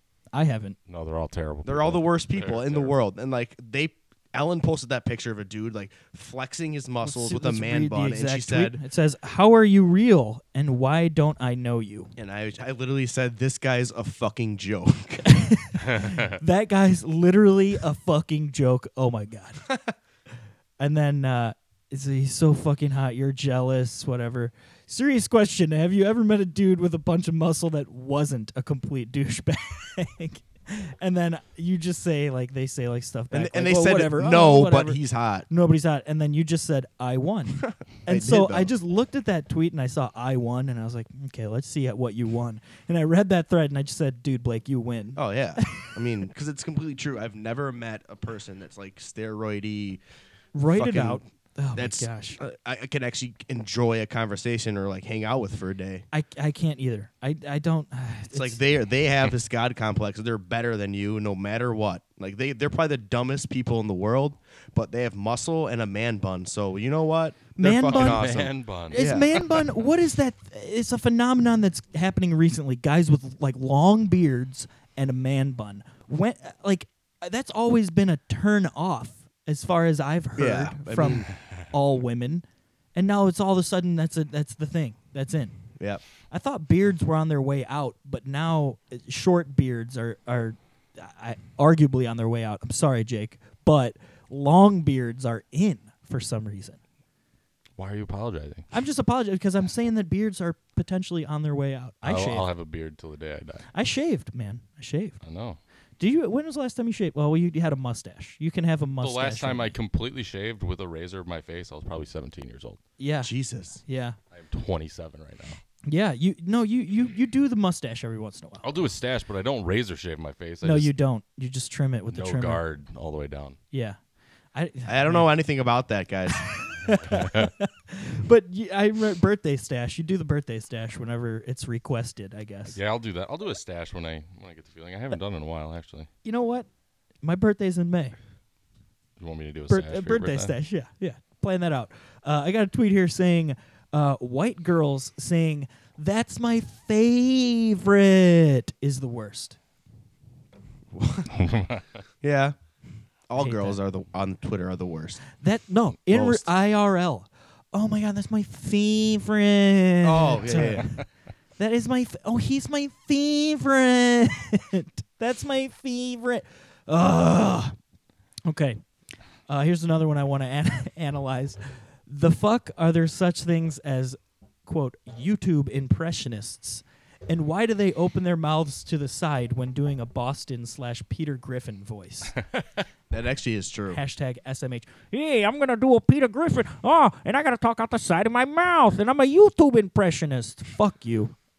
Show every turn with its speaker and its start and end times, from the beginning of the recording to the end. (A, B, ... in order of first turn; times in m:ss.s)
0:00.3-0:00.8 A
0:00.9-0:02.9 B
0:01.6-0:08.8 C
0:07.0-0:12.1 A
0:12.2-0:15.4 C
0:15.2-0:19.7 A
0:20.8-0:35.0 A
0:33.3-0:35.5 C
0:35.5-0:45.9 A
0:37.6-0:38.7 C
0:45.2-0:50.0 C
0:50.6-0:52.4 A
0:50.7-0:51.2 C
0:51.7-0:56.0 C
0:56.1-0:58.6 A
0:58.3-1:09.4 C
1:07.6-1:08.3 A
1:07.9-1:09.5 B
1:08.9-1:22.4 A
1:20.4-1:21.3 C
1:22.9-1:25.6 A
1:26.3-1:36.8 A
1:37.8-1:38.7 B
1:38.7-1:42.5 A
1:42.0-1:43.7 B
1:43.7-1:45.2 A
1:45.2-1:45.6 B
1:46.0-1:49.7 A
1:49.0-1:52.8 B
1:53.0-1:53.3 A
1:53.2-1:53.8 C
1:53.8-1:54.2 A
1:54.3-1:55.6 B
1:55.9-1:58.7 A
1:58.6-2:00.9 B
2:00.6-2:02.6 A
2:02.1-2:03.6 B
2:03.7-2:04.0 A
2:04.5-2:05.3 A
2:04.9-2:06.6 C
2:06.5-2:12.8 A
2:07.0-2:07.5 B
2:12.7-2:16.1 B
2:16.2-2:16.7 A
2:17.2-2:18.2 A
2:19.2-2:20.6 B
2:19.7-2:29.6 A
2:30.9-2:31.3 C
2:31.3-2:32.0 B
2:32.2-2:32.6 C
2:33.3-2:35.2 C
2:33.4-2:33.8 A
2:35.4-2:41.0 A
2:36.1-2:36.4 C
2:40.0-2:40.9 C
2:41.6-2:47.8 A
2:48.4-2:48.8 A
2:49.5-3:02.3 A
3:02.5-3:02.8 B
3:03.1-3:04.0 C
3:03.9-3:11.4 A